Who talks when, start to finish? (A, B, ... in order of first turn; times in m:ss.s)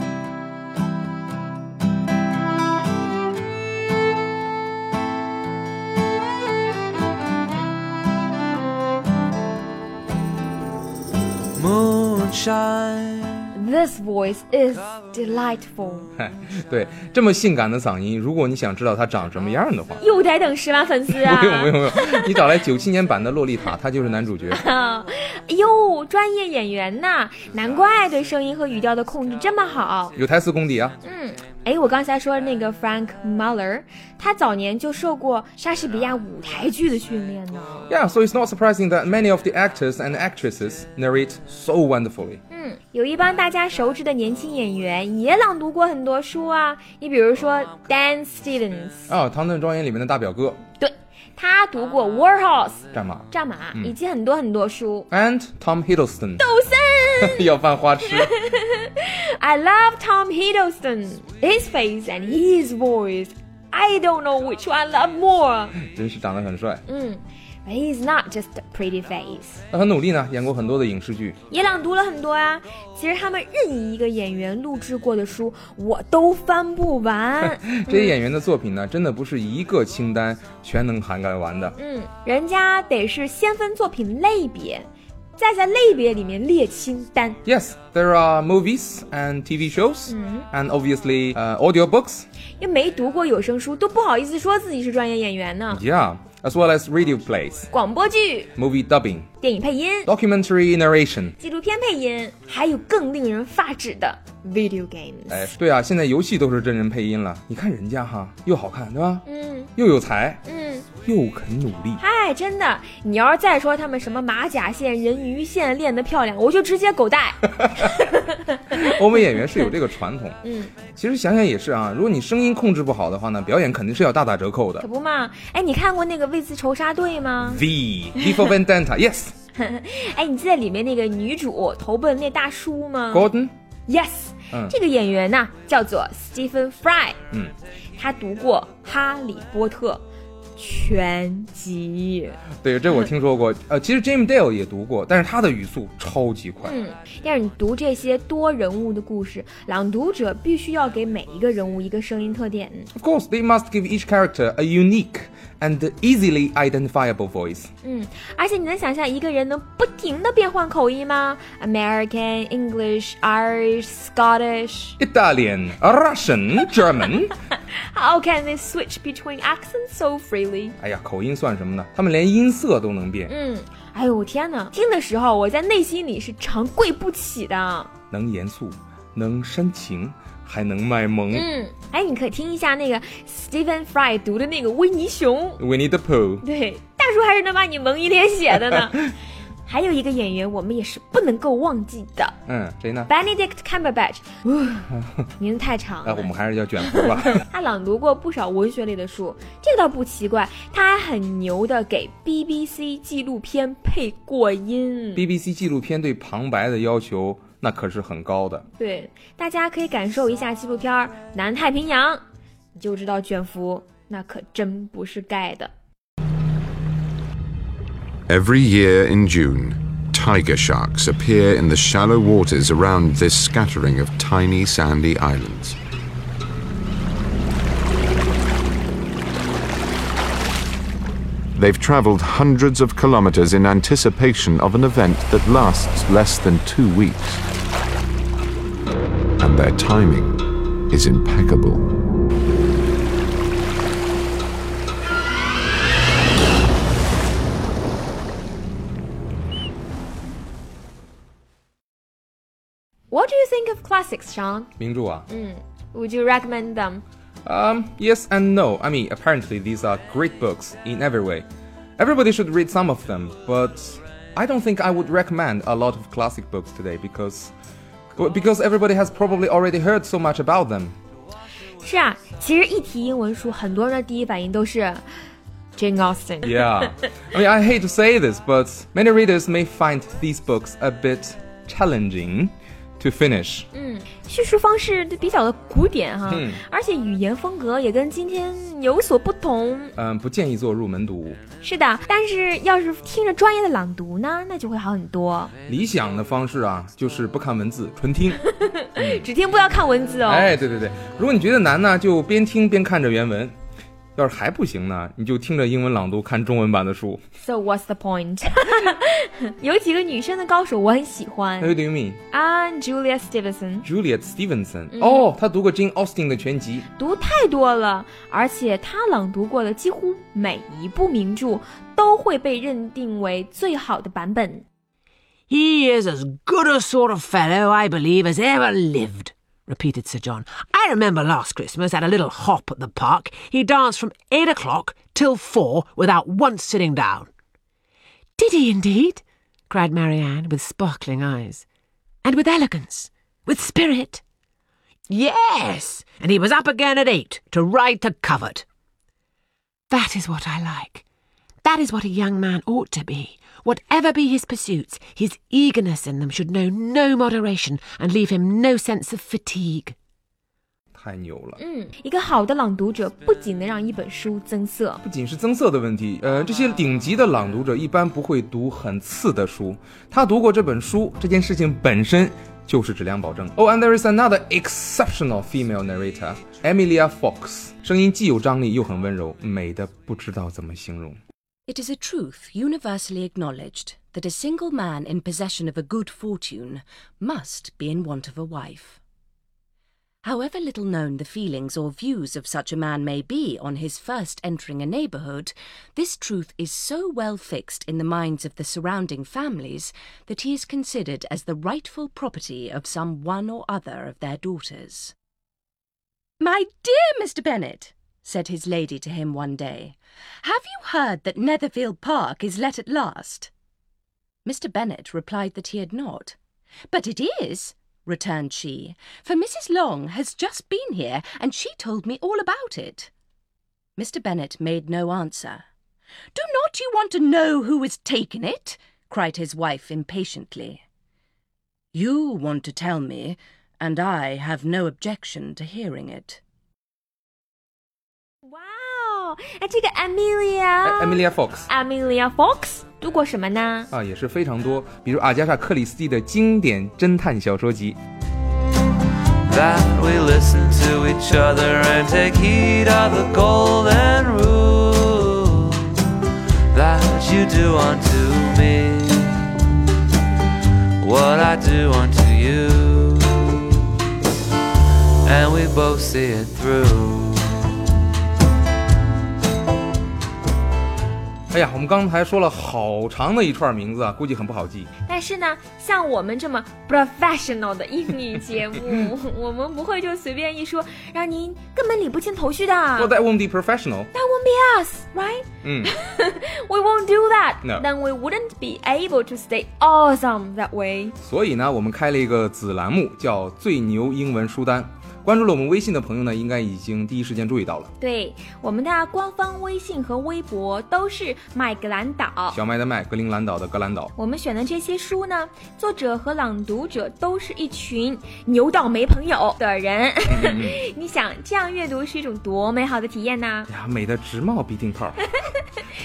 0:11.5-0:13.5 A
0:13.5-0:16.1 B
0:16.2-0:20.0 C
0:20.0-0:22.4 B
0:21.1-0:24.6 C
0:24.5-0:30.1 B
0:30.2-0:31.0 C
0:31.0-0:37.9 B
0:37.9-0:42.4 C
0:42.5-0:49.1 B
0:49.1-0:50.6 C
0:50.8-0:55.1 B
0:52.9-0:53.9 C
0:55.1-0:56.4 C
0:56.4-0:57.4 B
0:57.2-0:58.4 C
0:58.3-1:05.8 B
1:05.8-1:06.8 C
1:06.9-1:09.6 B
1:09.7-1:11.4 C
1:11.5-1:18.1 B
1:17.7-1:21.8 C
1:21.8-1:24.8 B
1:25.4-1:27.4 B
1:27.4-1:32.2 C
1:30.1-1:30.5 B
1:32.6-1:35.8 B
1:35.7-1:37.7 C
1:37.7-1:38.5 B
1:38.6-1:39.3 C
1:39.4-1:40.1 B
1:40.0-1:41.3 C
1:41.4-1:45.5 B
1:45.3-1:49.2 C
1:49.2-1:49.7 B
1:49.8-1:50.4 C
1:50.4-1:50.9 B
1:51.0-1:52.0 C
1:52.0-1:58.8 B
1:58.7-2:00.4 C
2:00.4-2:00.7 B
2:00.9-2:04.8 C
2:04.8-2:07.6 B
2:07.4-2:09.3 C
2:09.6-2:13.3 B
2:13.1-2:13.5 C
2:13.9-2:17.2 B
2:18.0-2:20.0 B
2:20.6-2:22.4 B
2:22.6-2:26.7 C
2:26.6-2:32.9 B
2:32.9-2:37.7 C
2:37.8-2:45.0 B
2:45.0-2:47.3 C
2:47.7-2:50.8 B
2:50.8-2:53.3 C
2:53.3-2:57.9 B
2:58.1-3:01.5 C
3:01.3-3:05.6 B
3:05.6-3:06.4 C
3:06.4-3:09.0 B
3:09.7-3:12.4 B
3:12.5-3:13.1 C
3:13.1-3:25.2 B
3:16.0-3:17.4 C
3:25.2-3:28.7 C
3:28.8-3:32.2 B
3:32.7-3:35.7 B
3:38.3-3:45.8 D
3:51.5-3:57.4 D
3:59.4-4:01.9 D
4:13.1-4:14.7 B
4:14.8-4:15.3 C
4:15.3-4:17.0 B
4:17.4-4:21.4 C
4:22.0-4:27.5 C
4:28.2-4:31.0 C
4:31.8-4:35.0 B
4:35.8-4:36.7 B
4:36.4-4:43.7 C
4:43.7-4:50.0 B
4:46.3-4:46.6 C
4:50.0-4:51.4 C
4:51.6-4:55.5 B
4:55.7-4:58.4 C
4:58.6-5:00.5 B
4:59.0-4:59.2 C
5:00.2-5:03.5 C
5:04.2-5:07.2 C
5:07.4-5:11.8 B
5:11.6-5:12.2 C
5:12.3-5:13.8 B
5:13.8-5:16.9 C
5:14.9-5:15.2 B
5:16.9-5:24.6 B
5:25.5-5:37.3 E
5:38.4-5:41.6 E
5:42.2-5:44.2 E
5:45.1-5:48.6 E
5:49.9-5:51.0 E
5:51.6-6:00.0 E
6:00.9-6:01.6 C
6:01.6-6:05.0 B
6:05.0-6:21.2 C
6:21.7-6:29.0 F
6:30.2-6:45.1 F
6:46.4-6:53.5 F
6:54.4-6:56.4 F
6:56.9-7:03.1 F
7:04.0-7:05.6 F
7:06.3-7:10.8 F
7:11.9-7:16.4 F
7:18.4-7:23.9 B
7:20.8-7:21.7 C
7:23.9-7:28.0 C
7:29.4-7:36.1 A
7:36.7-7:39.6 A
7:41.0-7:43.9 A
7:45.2-7:47.7 A
7:51.5-7:54.9 C
7:55.1-8:03.1 B
8:03.0-8:04.1 C
8:04.1-8:11.2 B
8:05.6-8:05.9 C
8:11.2-8:17.9 C
8:18.0-8:22.6 B
8:22.5-8:24.1 C
8:24.2-8:33.7 B
8:30.3-8:30.8 C
8:33.7-8:35.2 C